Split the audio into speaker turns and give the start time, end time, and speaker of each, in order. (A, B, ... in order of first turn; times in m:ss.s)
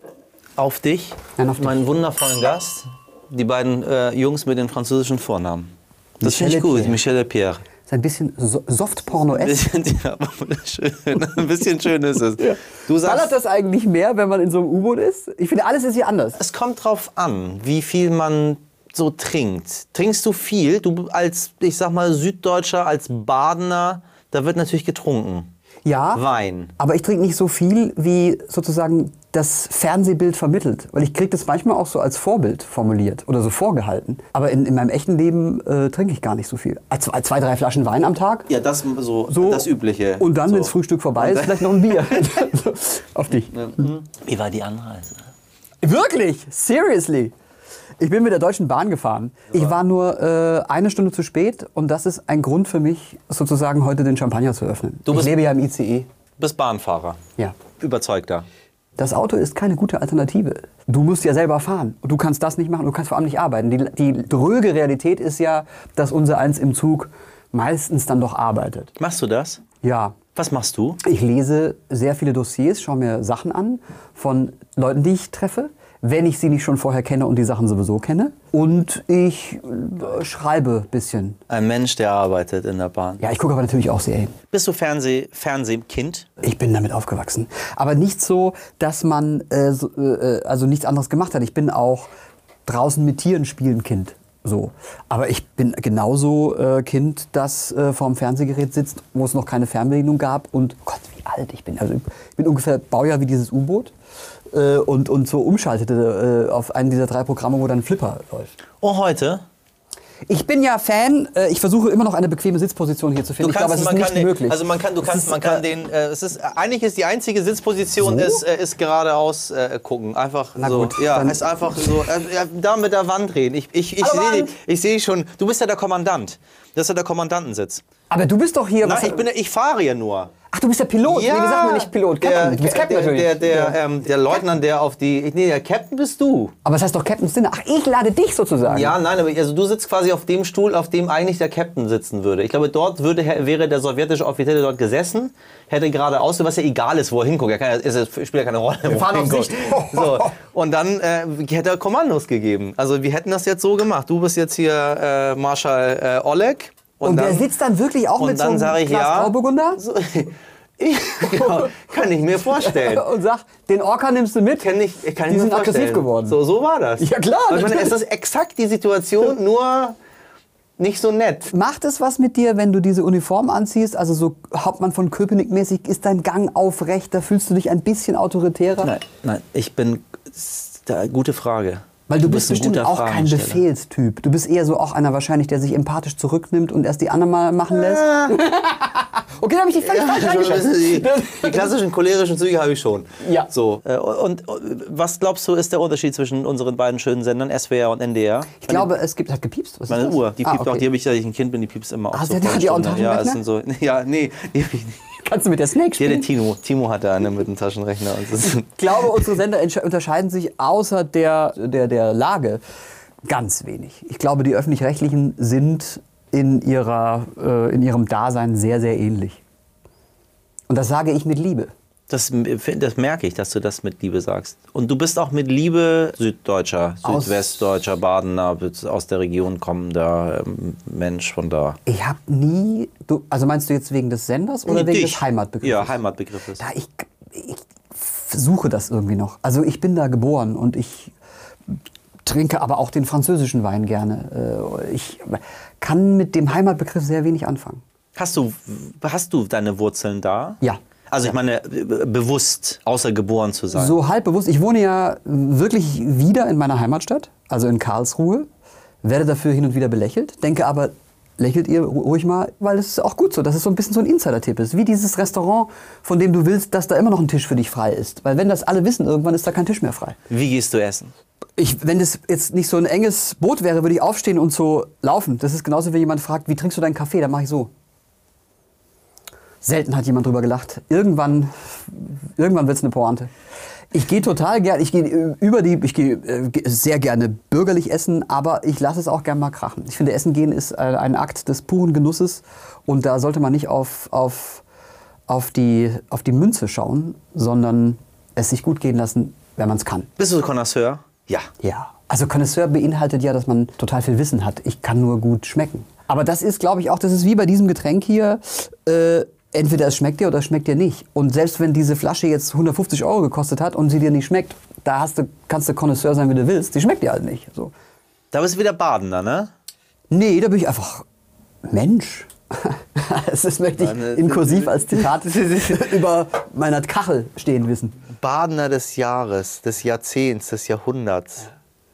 0:00.6-0:07.6 A
0:01.4-0:01.7 B
0:06.2-0:07.0 B
0:07.9-0:09.6 B
0:09.3-0:13.4 A
0:12.4-0:16.4 B
0:16.4-0:25.5 A
0:25.8-0:26.2 B
0:26.2-0:26.7 A
0:26.8-0:38.5 B
0:38.5-0:42.3 A
0:39.3-0:43.9 B
0:43.5-0:45.3 A
0:45.8-0:47.3 B
0:48.0-0:56.1 B
0:55.1-0:55.3 A
0:56.4-0:57.2 A
0:57.8-0:58.5 A
0:59.0-1:08.9 B
1:09.0-1:09.6 A
1:09.8-1:10.2 B
1:10.4-1:11.0 A
1:11.0-1:21.4 B
1:21.5-1:23.2 A
1:23.2-1:24.4 B
1:24.5-1:26.3 A
1:26.4-1:32.1 B
1:32.7-1:43.9 B
1:44.5-1:48.5 B
1:48.8-1:49.4 A
1:50.3-1:55.6 B
1:53.4-2:07.8 A
1:58.0-1:58.4 B
2:00.6-2:01.4 B
2:04.0-2:04.6 B
2:08.1-2:09.2 B
2:08.8-2:10.3 A
2:10.5-2:13.8 B
2:11.1-2:16.5 A
2:16.6-2:19.0 B
2:18.7-2:37.5 A
2:28.9-2:30.4 B
2:37.0-2:39.8 B
2:38.2-2:43.1 A
2:41.2-2:41.8 B
2:42.4-2:44.7 B
2:44.6-2:50.0 A
2:45.3-2:46.4 B
2:47.0-2:48.0 B
2:50.8-2:51.5 A
2:51.5-2:58.9 B
2:58.8-3:03.6 A
3:02.1-3:11.7 B
3:07.7-3:08.4 A
3:09.8-3:18.9 A
3:13.2-3:13.5 B
3:18.6-3:20.8 B
3:19.9-3:25.0 A
3:22.1-3:23.4 B
3:25.2-3:26.3 B
3:26.0-3:29.2 A
3:28.5-3:32.6 B
3:33.3-3:39.4 B
3:40.7-3:41.7 B
3:42.1-3:51.8 A
3:47.0-3:47.5 B
3:51.9-3:56.0 B
3:54.7-3:56.6 A
3:56.6-4:01.1 B
4:01.7-4:07.8 B
4:08.2-4:10.6 A
4:11.1-4:14.0 A
4:13.7-4:18.5 B
4:19.0-4:30.2 B
4:30.3-4:31.1 A
4:31.6-4:37.7 B
4:39.6-4:43.3 B
4:43.9-4:54.6 B
4:55.3-5:00.1 B
5:00.2-5:01.5 A
5:01.6-5:17.7 B
5:18.3-5:19.5 A
5:20.1-5:21.0 B
5:21.6-5:28.0 B
5:23.8-5:26.0 A
5:28.1-5:31.5 A